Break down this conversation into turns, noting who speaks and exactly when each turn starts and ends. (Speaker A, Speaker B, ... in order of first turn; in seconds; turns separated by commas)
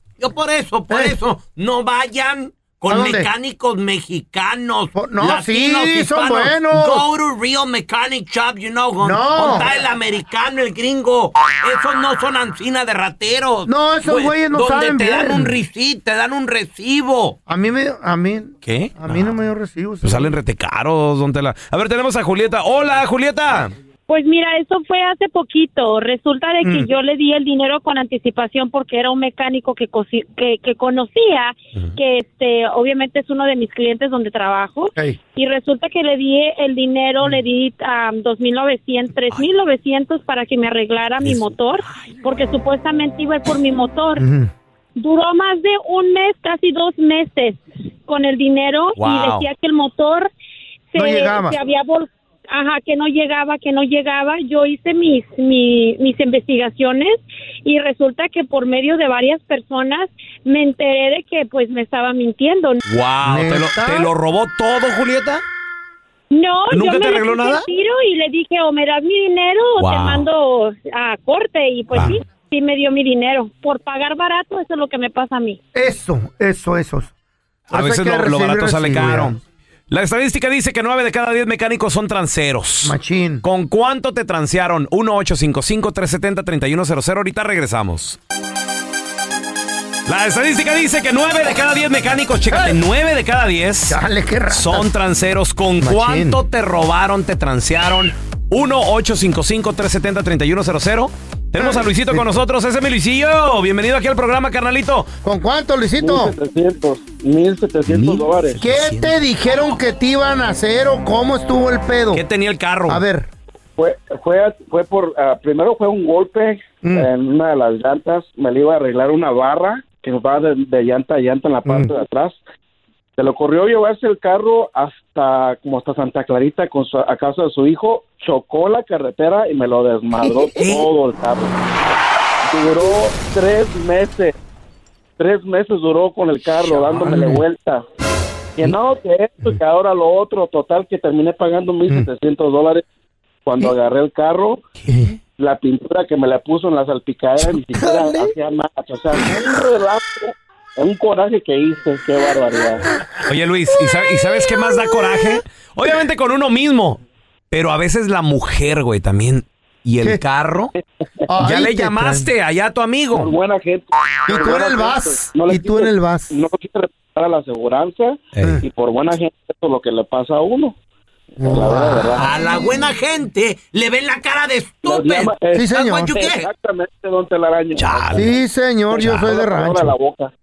Speaker A: 0.2-17.4, Speaker B: 0.9-1.2, Speaker B: 2.9-3.3, Speaker B: 4.9-7.1, Speaker B: 9.0-9.7, Speaker B: 13.7-15.6, Speaker B: 17.5-20.3, Speaker C: 18.6-19.2, Speaker C: 20.0-23.7, Speaker D: 24.1-44.2, Speaker B: 26.6-26.9, Speaker B: 44.2-44.5, Speaker D: 45.0-50.3, Speaker C: 49.0-49.5, Speaker D: 50.9-62.8, Speaker B: 50.9-51.6, Speaker C: 62.9-65.4, Speaker B: 63.2-64.1, Speaker D: 66.3-75.6, Speaker C: 66.7-67.6, Speaker C: 69.8-70.3, Speaker B: 75.7-77.1, Speaker B: 77.7-79.3, Speaker C: 77.7-88.2, Speaker B: 82.8-83.4, Speaker C: 90.1-105.1, Speaker B: 92.5-92.8, Speaker B: 93.9-94.9, Speaker B: 95.8-96.4, Speaker B: 101.6-102.3, Speaker B: 105.2-106.3, Speaker E: 106.0-108.8, Speaker B: 108.6-112.2, Speaker C: 108.7-108.9, Speaker C: 112.1-113.0, Speaker B: 112.9-113.3, Speaker E: 113.8-122.4, Speaker B: 116.8-117.1, Speaker B: 121.7-121.9, Speaker E: 123.2-131.6, Speaker E: 132.5-134.3, Speaker E: 135.2-137.8, Speaker B: 137.0-137.4, Speaker E: 138.6-142.8, Speaker E: 143.4-144.7, Speaker E: 145.4-152.9, Speaker B: 147.5-148.3, Speaker C: 153.2-157.0, Speaker C: 157.5-160.7, Speaker B: 161.3-162.3, Speaker C: 161.4-163.3, Speaker E: 163.1-170.8, Speaker B: 164.3-166.3, Speaker E: 171.4-172.3, Speaker B: 171.4-172.2, Speaker A: 172.2-176.4, Speaker E: 174.8-178.4, Speaker B: 175.5-176.2, Speaker C: 177.8-178.3, Speaker B: 178.1-179.9, Speaker E: 178.9-180.3, Speaker C: 179.0-179.3